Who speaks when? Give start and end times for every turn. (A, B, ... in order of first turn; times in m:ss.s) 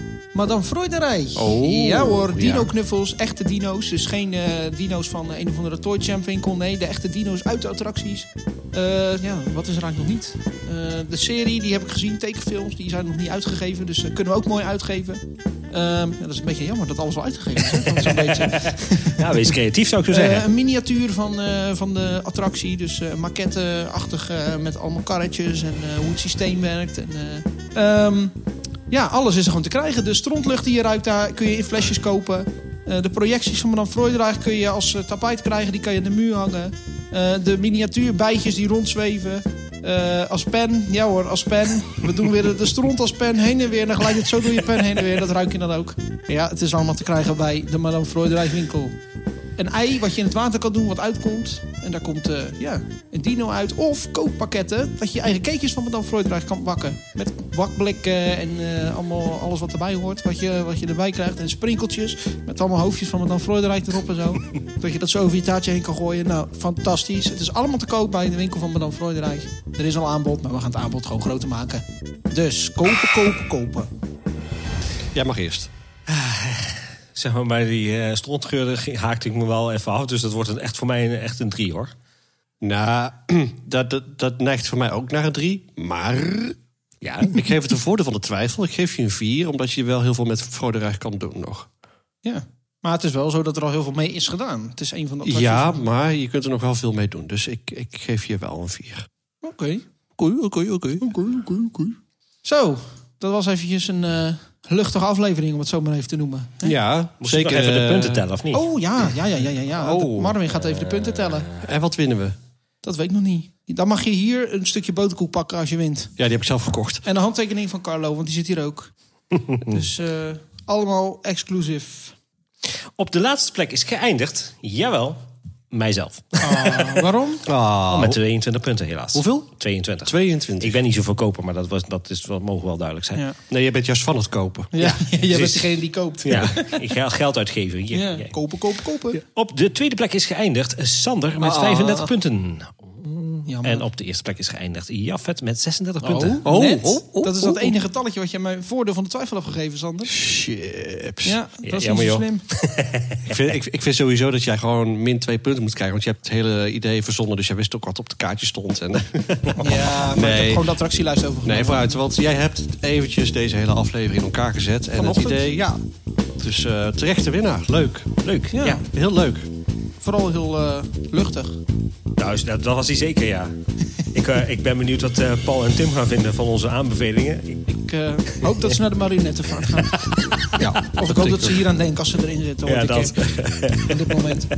0:00.3-0:15.2 A
0:01.4-0:02.7 B
0:15.7-0:19.5 A
0:17.7-0:20.4 C
0:20.1-0:28.4 A
0:28.9-0:49.0 A
0:49.6-1:13.9 A
1:15.1-1:15.7 B
1:16.1-1:21.9 C
1:22.6-1:26.6 B
1:27.0-1:27.4 C
1:27.3-1:31.7 B
1:32.2-1:35.8 A
1:35.2-1:39.1 B
1:39.4-1:39.8 A
1:40.2-1:41.1 B
1:41.0-1:46.8 A
1:46.6-1:48.2 B
1:47.2-1:48.7 C
1:48.5-1:51.5 A
1:49.8-1:50.4 B
1:50.5-1:51.7 C
1:51.6-1:52.4 B
1:52.8-1:56.1 A
1:56.2-1:57.0 B
1:57.0-1:58.9 A
1:59.5-2:02.2 A
2:03.0-2:07.0 C
2:06.4-2:07.4 A
2:07.4-2:08.2 B
2:07.9-2:13.2 C
2:09.2-2:09.5 B
2:10.0-2:10.8 B
2:13.5-2:15.4 B
2:14.7-2:16.8 A
2:15.4-2:15.6 C
2:16.2-2:18.3 C
2:16.2-2:16.5 B
2:17.9-2:19.2 A
2:19.1-2:26.4 C
2:21.4-2:22.1 B
2:23.5-2:23.9 A
2:26.0-2:30.2 A
2:26.4-2:27.8 B
2:30.1-2:31.4 B
2:31.2-2:32.4 A
2:31.6-2:33.4 C
2:33.3-2:40.7 B
2:39.6-2:42.0 A
2:41.4-2:45.8 B
2:45.0-2:45.6 A
2:46.4-2:48.2 B
2:48.2-2:48.8 C
2:48.5-2:48.8 A
2:48.7-2:49.5 B
2:50.0-2:51.6 A
2:52.2-2:53.5 C
2:54.1-2:57.7 C
2:57.7-3:04.5 A
2:58.4-2:58.6 C
2:59.8-3:00.6 C
3:00.6-3:01.6 B
3:02.7-3:04.3 C